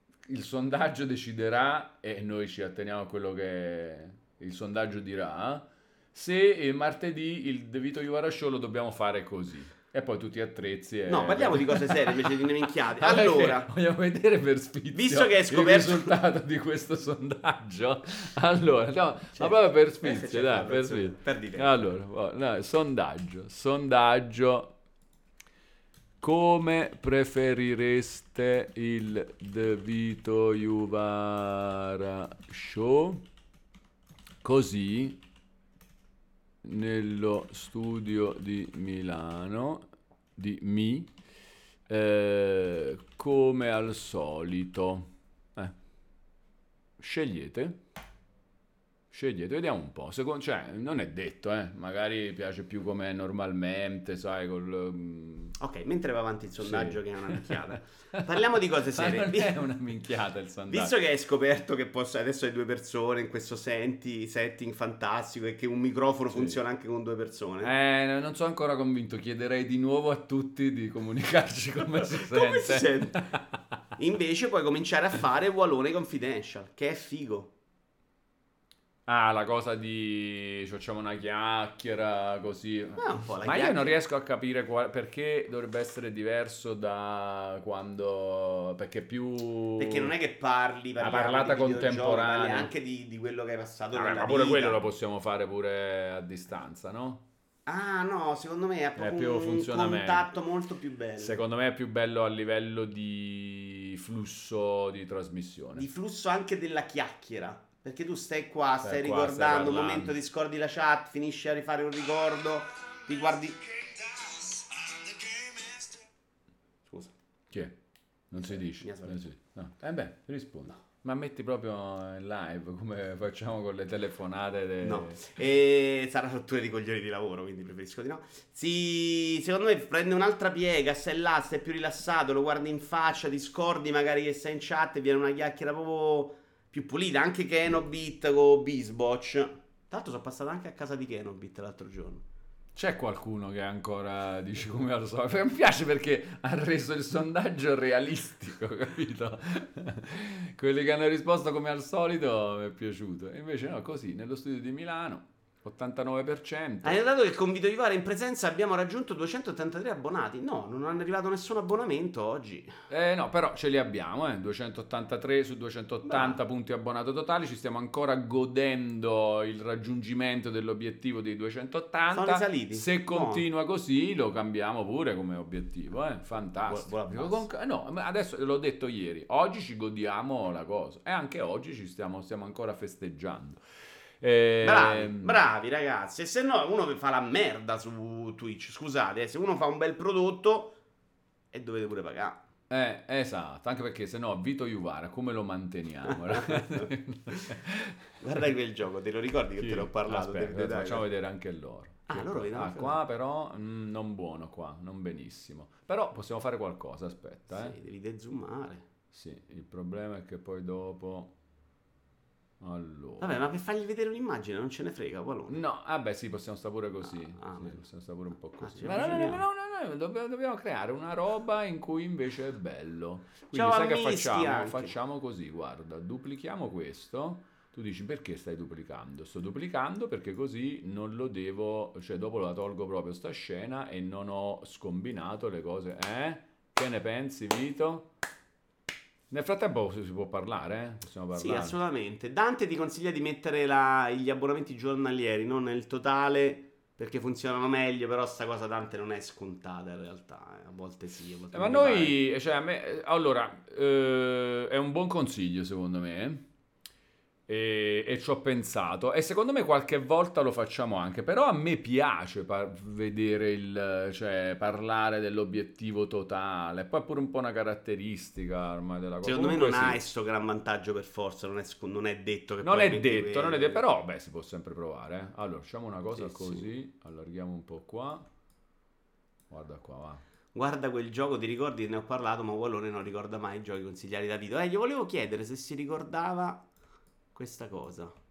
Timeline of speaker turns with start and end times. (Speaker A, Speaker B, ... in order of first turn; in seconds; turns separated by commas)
Speaker A: 0.3-12.4, Speaker B: 11.1-13.7, Speaker A: 13.0-24.7, Speaker B: 14.9-16.1, Speaker B: 19.4-21.9, Speaker A: 26.2-33.2, Speaker A: 34.4-35.2, Speaker A: 36.6-39.9, Speaker A: 40.4-41.1, Speaker A: 41.9-45.7, Speaker A: 47.0-47.8, Speaker A: 49.1-55.5, Speaker B: 55.6-59.6, Speaker A: 56.6-60.9, Speaker B: 60.7-67.7, Speaker A: 66.3-66.6, Speaker A: 67.6-73.4, Speaker B: 72.0-73.4, Speaker B: 74.0-77.5, Speaker A: 79.1-90.1, Speaker B: 83.0-84.0, Speaker B: 89.8-94.8, Speaker A: 91.0-92.7, Speaker A: 93.9-97.2, Speaker B: 97.7-101.4, Speaker A: 99.0-100.3, Speaker A: 101.2-105.9, Speaker B: 105.8-116.0, Speaker A: 108.8-110.2, Speaker B: 116.9-117.1, Speaker A: 117.5-117.8, Speaker A: 118.3-125.3, Speaker B: 118.4-119.3, Speaker B: 124.8-142.2, Speaker A: 142.8-157.0, Speaker B: 156.8-162.8, Speaker A: 162.9-183.6, Speaker B: 166.1-166.4, Speaker B: 172.1-173.4, Speaker B: 176.7-177.5, Speaker A: 184.2-185.4, Speaker B: 184.6-190.8, Speaker B: 191.5-192.4, Speaker A: 192.7-198.0, Speaker B: 196.3-197.5, Speaker B: 198.2-201.1, Speaker A: 199.6-207.8, Speaker B: 202.1-203.0, Speaker B: 207.5-208.9, Speaker A: 209.1-211.3, Speaker A: 212.6-213.4, Speaker B: 213.2-215.6, Speaker A: 215.5-238.1, Speaker B: 217.3-217.8, Speaker B: 218.6-219.4, Speaker B: 223.5-225.0, Speaker A: 239.3-241.8, Speaker B: 241.3-252.2, Speaker A: 251.5-256.4, Speaker A: 257.5-270.0, Speaker B: 269.2-273.8, Speaker A: 272.6-278.3, Speaker B: 276.1-276.7, Speaker A: 279.5-280.2, Speaker B: 280.5-286.6, Speaker B: 287.4-288.2